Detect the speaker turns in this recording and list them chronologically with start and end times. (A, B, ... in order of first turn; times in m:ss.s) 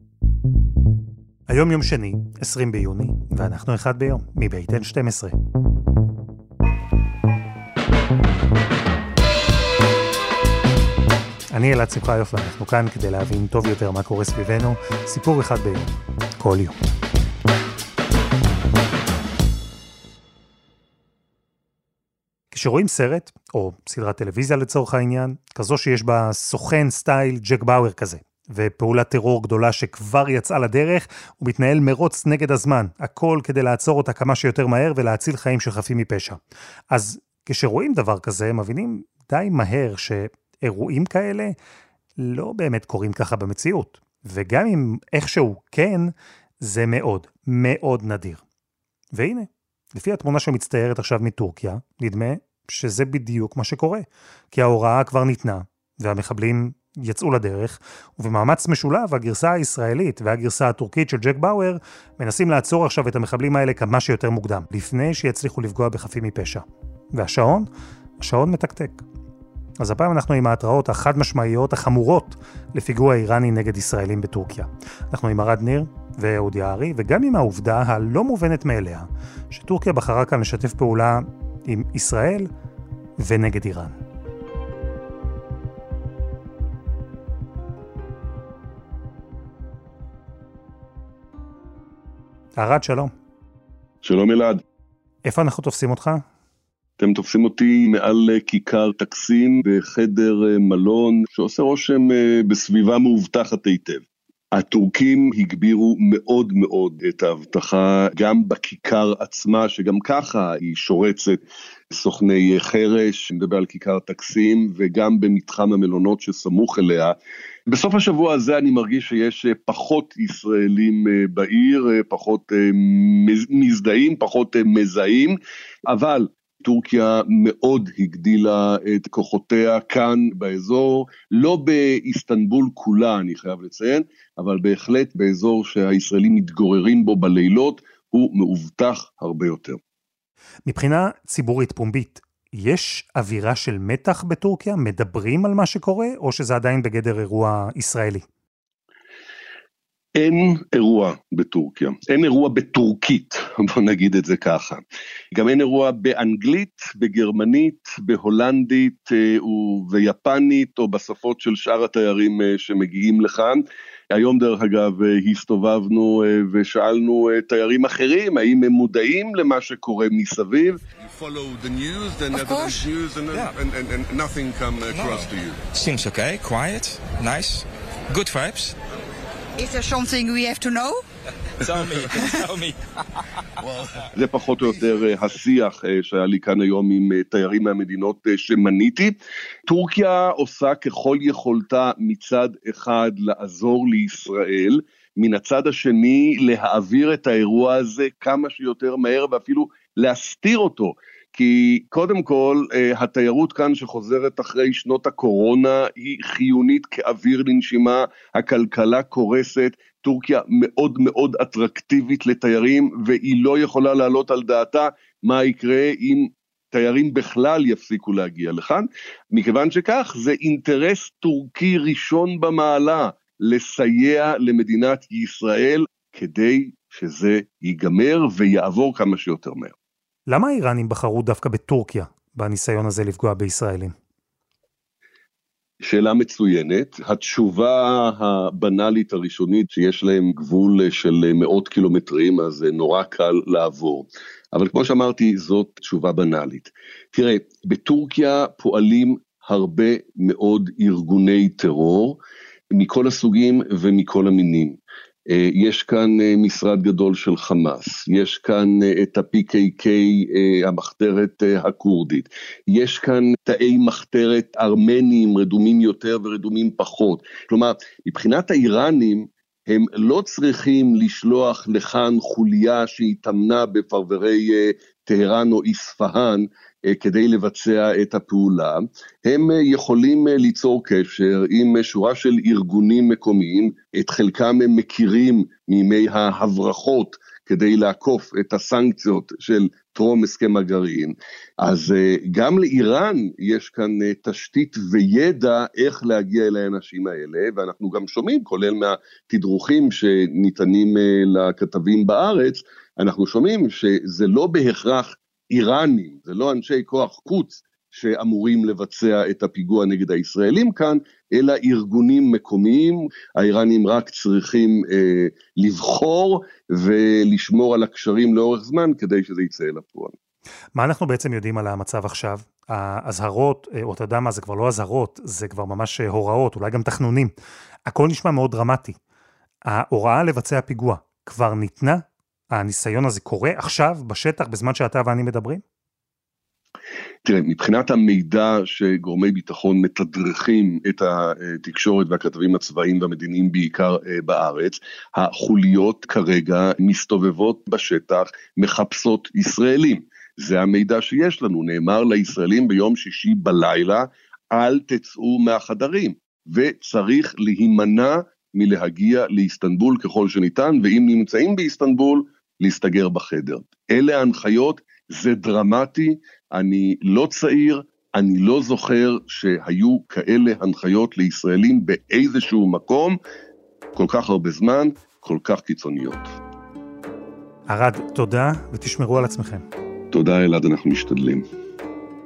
0:01.5-0:05.4 A
0:11.5-0:16.8 A
0:22.5-0:36.4 A
0:36.9-0:41.6 A
0:42.2-0:48.4 A
0:49.1-1:07.7 A
1:08.2-1:09.0 A
1:09.8-1:22.5 A
1:23.2-1:24.0 A
1:32.6-1:33.1 A
1:34.0-1:34.6 B
1:35.2-1:36.2 A
1:37.0-1:57.2 B
1:57.7-2:19.8 B
2:20.7-2:28.2 A
2:30.2-2:34.8 B
2:35.3-2:55.6 B
2:52.3-2:52.8 C
2:54.9-2:58.8 D
2:59.6-3:01.0 C
3:01.6-3:02.8 D
3:04.1-3:09.1 B
3:09.7-3:49.7 B
3:50.3-3:54.0 A
3:55.8-4:12.2 B
4:12.7-5:20.2 B
5:20.8-5:27.3 A
5:27.9-5:29.0 A
5:29.7-5:35.6 A
5:37.2-6:13.2 B
6:14.0-6:16.3 B
6:17.7-6:19.6 A
6:20.1-6:21.4 B